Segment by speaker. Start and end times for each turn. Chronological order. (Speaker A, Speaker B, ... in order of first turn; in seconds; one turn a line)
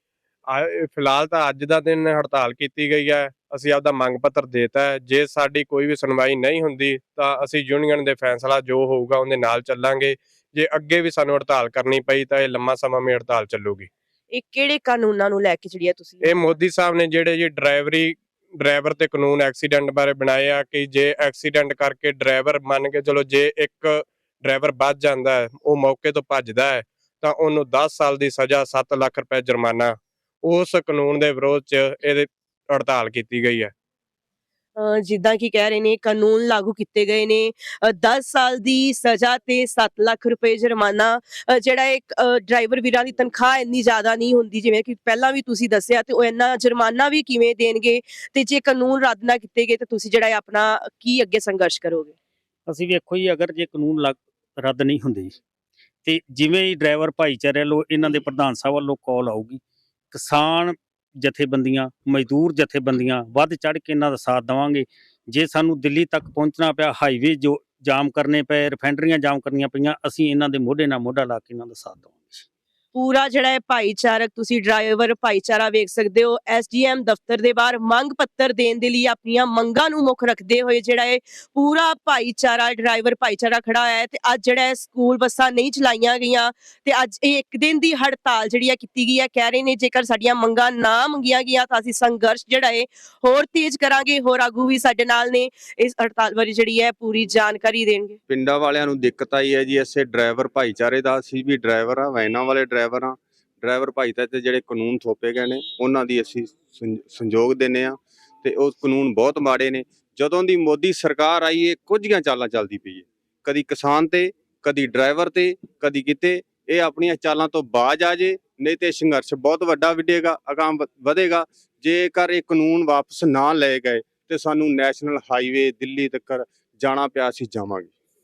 Speaker A: 0.5-13.9
Speaker B: 14.3-16.5
Speaker A: 16.2-33.7
Speaker B: 34.8-52.1
Speaker C: 52.7-55.3
Speaker C: 56.0-59.6
Speaker C: 60.1-72.5
Speaker B: 72.9-98.2
Speaker D: 98.3-127.9